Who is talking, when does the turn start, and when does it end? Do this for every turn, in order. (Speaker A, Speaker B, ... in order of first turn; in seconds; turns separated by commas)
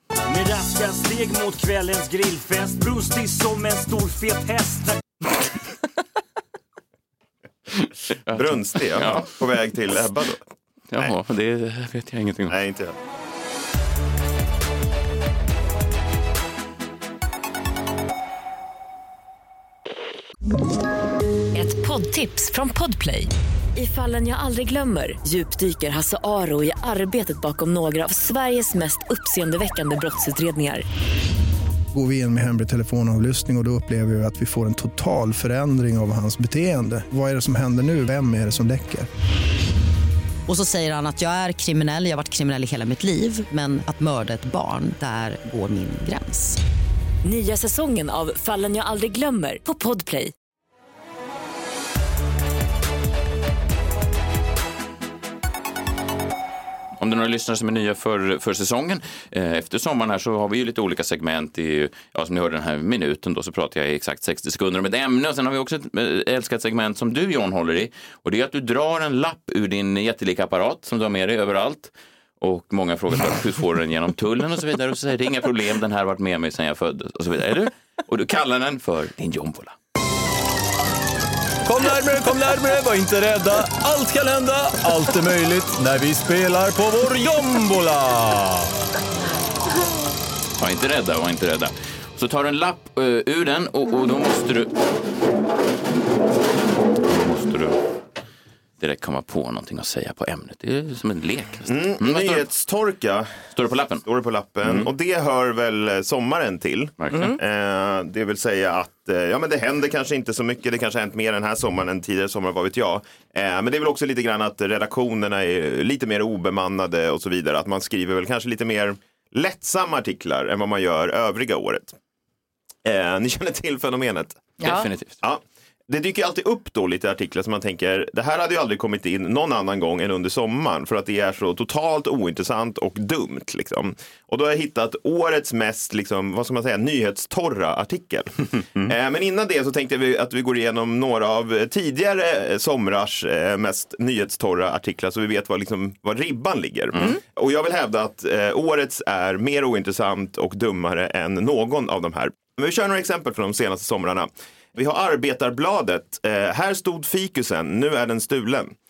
Speaker A: 0.3-5.0, Speaker B: 7.8-9.3, Speaker C: 8.3-10.4, Speaker B: 10.9-12.5, Speaker C: 12.5-12.9, Speaker D: 21.6-30.9, Speaker E: 31.9-39.1, Speaker F: 40.5-46.6, Speaker D: 47.2-50.3, Speaker B: 57.0-79.8, Speaker G: 81.6-88.7, Speaker B: 90.6-94.7, Speaker B: 97.0-97.8, Speaker B: 98.8-102.5, Speaker C: 101.7-103.5, Speaker B: 103.5-104.0, Speaker C: 104.0-122.0, Speaker B: 104.6-104.9, Speaker B: 107.0-107.3, Speaker C: 122.8-124.6, Speaker B: 124.6-125.2, Speaker C: 125.2-158.7